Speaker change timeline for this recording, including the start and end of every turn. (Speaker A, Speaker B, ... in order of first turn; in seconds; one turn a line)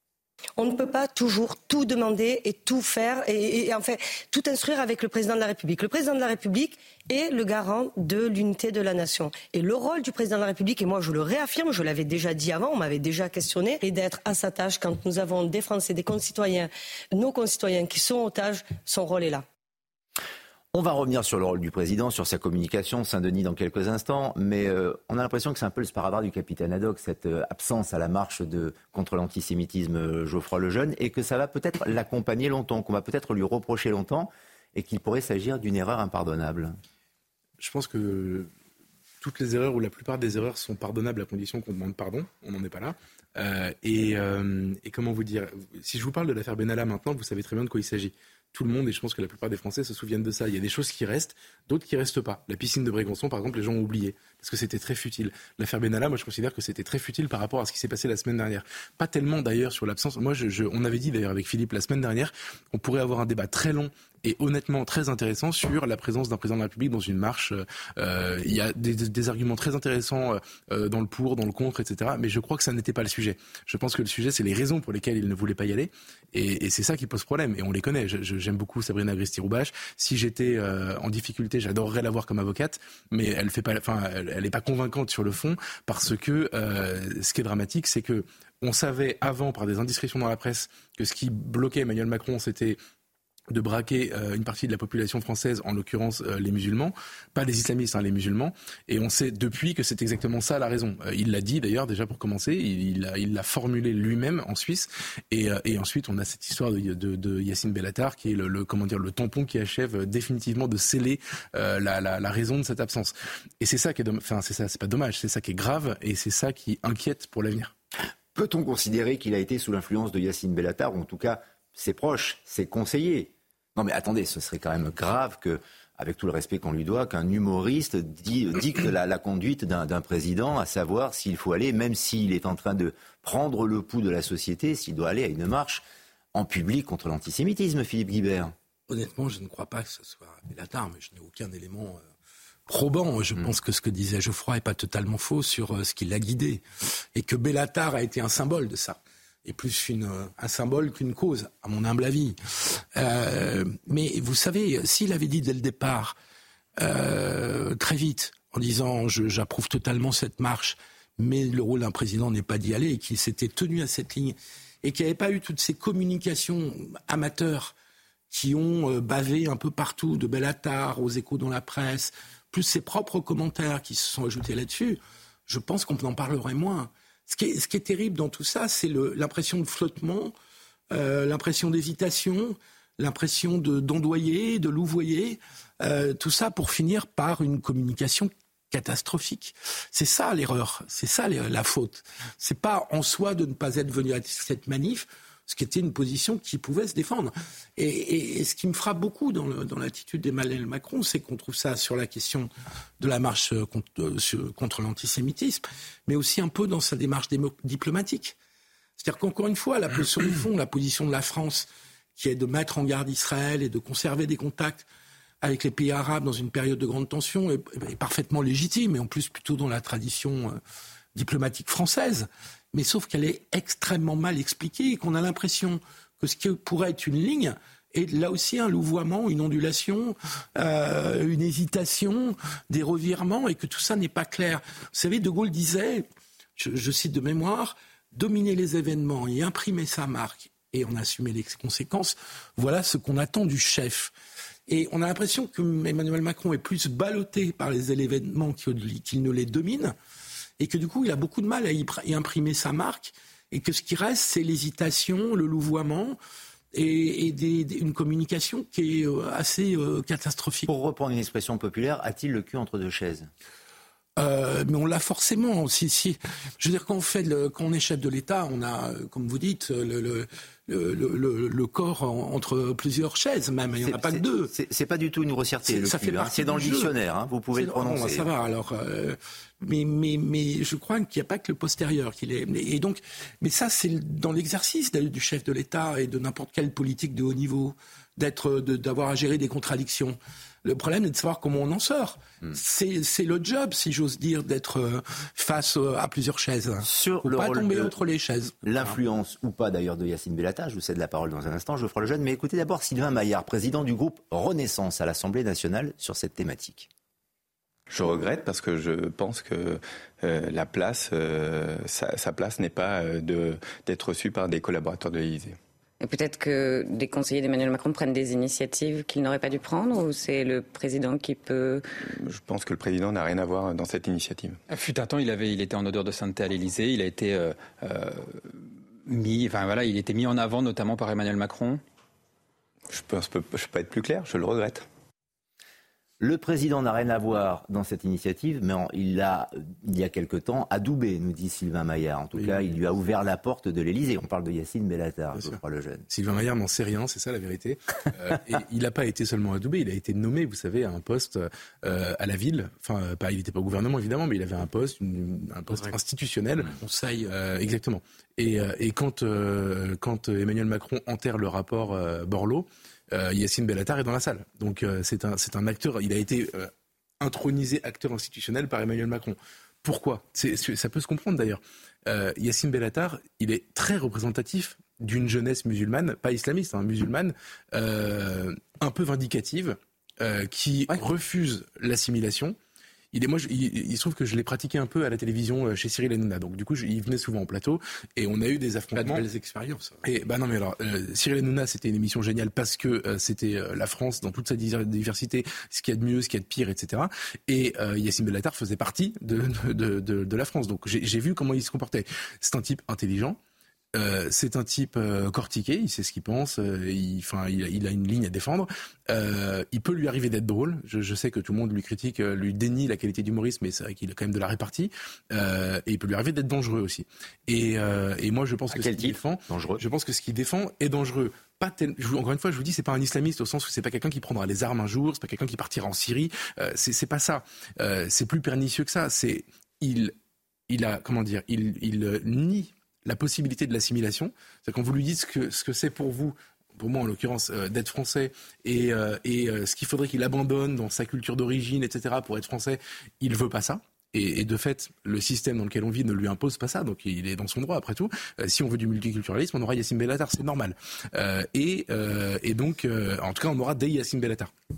Speaker A: 0.6-19.4
Speaker B: 20.7-36.8
Speaker C: 37.6-38.5
Speaker C: 39.2-92.8
Speaker C: 93.5-117.7
Speaker B: 118.3-138.6
Speaker D: 138.9-142.0
Speaker D: 142.7-146.6
Speaker D: 147.2-156.2
Speaker D: 156.8-167.8
Speaker D: 168.3-180.3
Speaker D: 180.9-208.4
Speaker D: 209.0-214.9
Speaker D: 215.4-220.6
Speaker D: 221.2-236.1
Speaker D: 236.6-244.1
Speaker D: 244.7-249.9
Speaker D: 250.6-256.2
Speaker D: 256.7-260.7
Speaker B: 260.7-263.3
Speaker D: 264.2-274.5
Speaker B: 273.8-278.3
Speaker D: 275.6-276.9
Speaker D: 277.5-299.0
Speaker B: 296.8-298.0
Speaker B: 298.6-306.9
Speaker E: 307.9-315.6
Speaker F: 316.0-321.9
Speaker E: 322.2-324.6
Speaker G: 324.7-331.8
Speaker E: 332.9-334.9
Speaker B: 336.2-346.1
Speaker C: 346.1-382.6
Speaker D: 356.8-357.3
Speaker C: 383.1-389.2
Speaker D: 389.0-390.0
Speaker C: 390.0-403.4
Speaker C: 403.9-430.1
Speaker B: 418.7-419.8
Speaker C: 430.7-454.5